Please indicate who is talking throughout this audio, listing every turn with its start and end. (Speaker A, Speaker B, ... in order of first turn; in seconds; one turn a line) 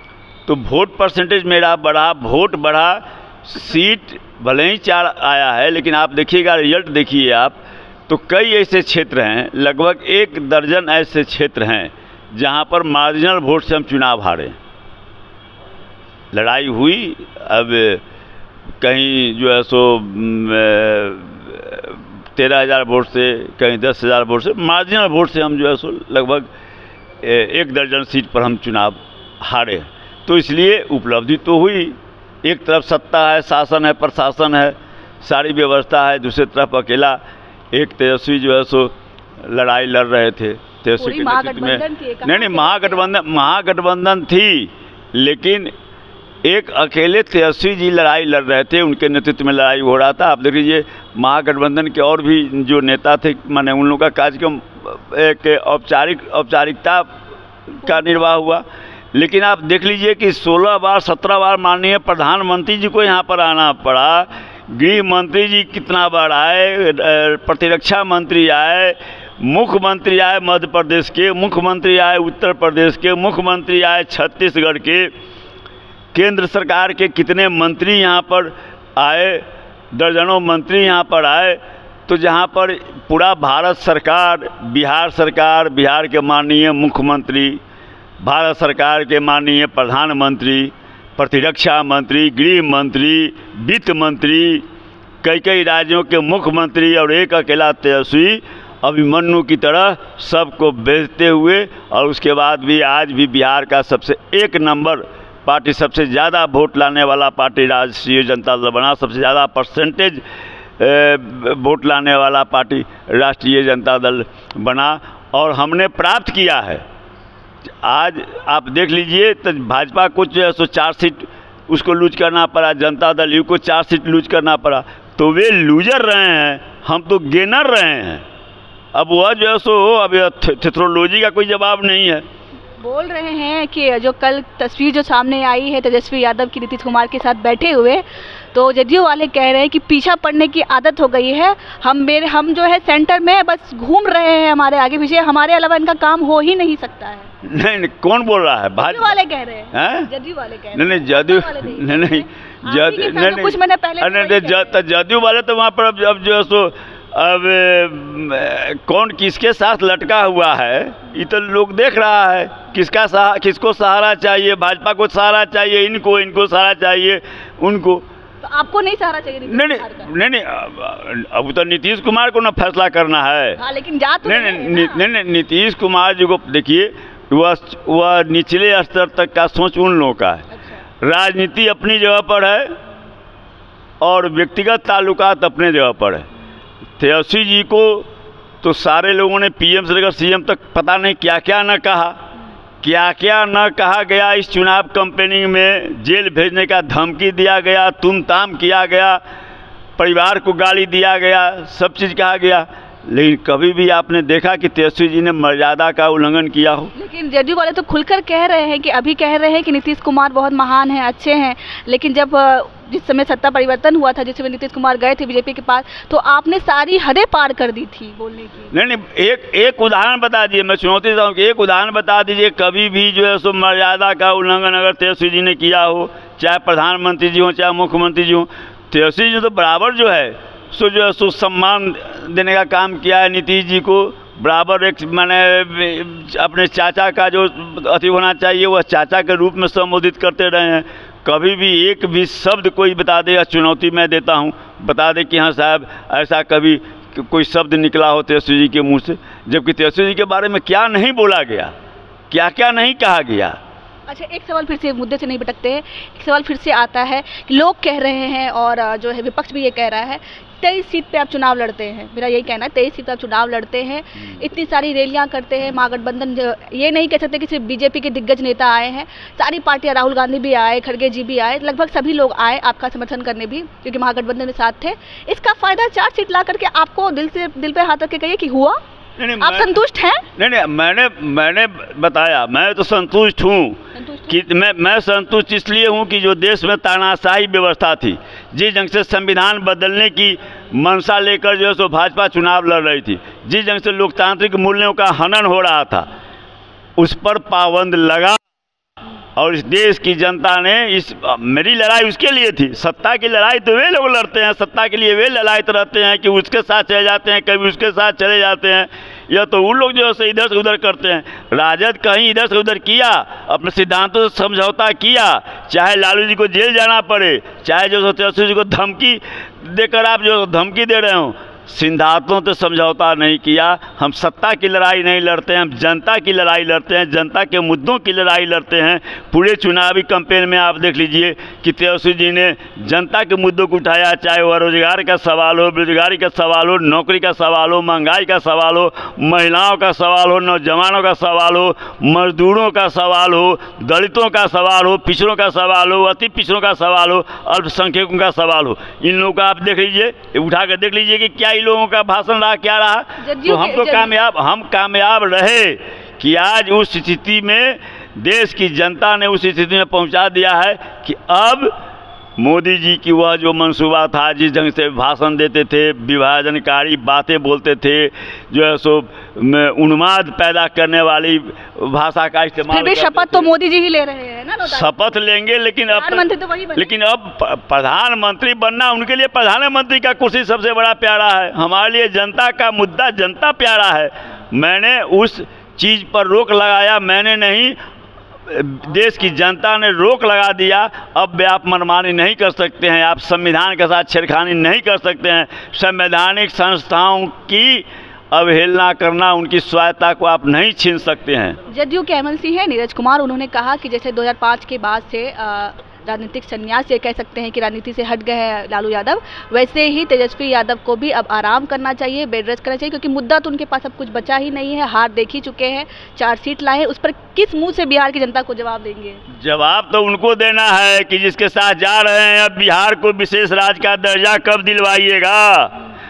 Speaker A: 0.5-14.6
Speaker A: 16.3-18.0
Speaker A: 18.8-26.5
Speaker A: 27.2-37.2
Speaker A: 37.7-45.7
Speaker B: 41.0-43.1
Speaker A: 46.4-57.1
Speaker A: 57.8-75.1
Speaker A: 76.1-87.6
Speaker A: 88.2-94.7
Speaker A: 95.2-110.2
Speaker A: 110.8-116.8
Speaker A: 117.8-128.2
Speaker A: 128.9-132.2
Speaker B: 132.8-147.3
Speaker A: 147.4-149.2
Speaker B: 148.7-154.8
Speaker A: 149.7-150.1
Speaker A: 150.7-168.0
Speaker B: 168.4-170.1
Speaker A: 169.5-173.6
Speaker B: 173.6-175.0
Speaker A: 174.2-180.5
Speaker B: 180.5-180.8
Speaker A: 181.0-182.8
Speaker A: 184.0-186.3
Speaker A: 187.0-188.1
Speaker A: 188.6-192.2
Speaker A: 192.8-199.2
Speaker A: 200.0-206.9
Speaker B: 206.9-218.7
Speaker A: 218.7-251.7
Speaker A: 252.3-253.6
Speaker B: 254.1-278.8
Speaker A: 279.2-279.8
Speaker B: 279.4-280.2
Speaker A: 280.4-296.1
Speaker B: 283.9-284.4
Speaker A: 297.0-298.4
Speaker A: 299.4-361.7
Speaker B: 353.2-354.1
Speaker A: 362.4-373.5
Speaker B: 372.7-374.9
Speaker A: 374.6-387.8
Speaker B: 375.9-376.9
Speaker A: 388.5-401.6
Speaker B: 401.7-419.2
Speaker A: 419.3-425.8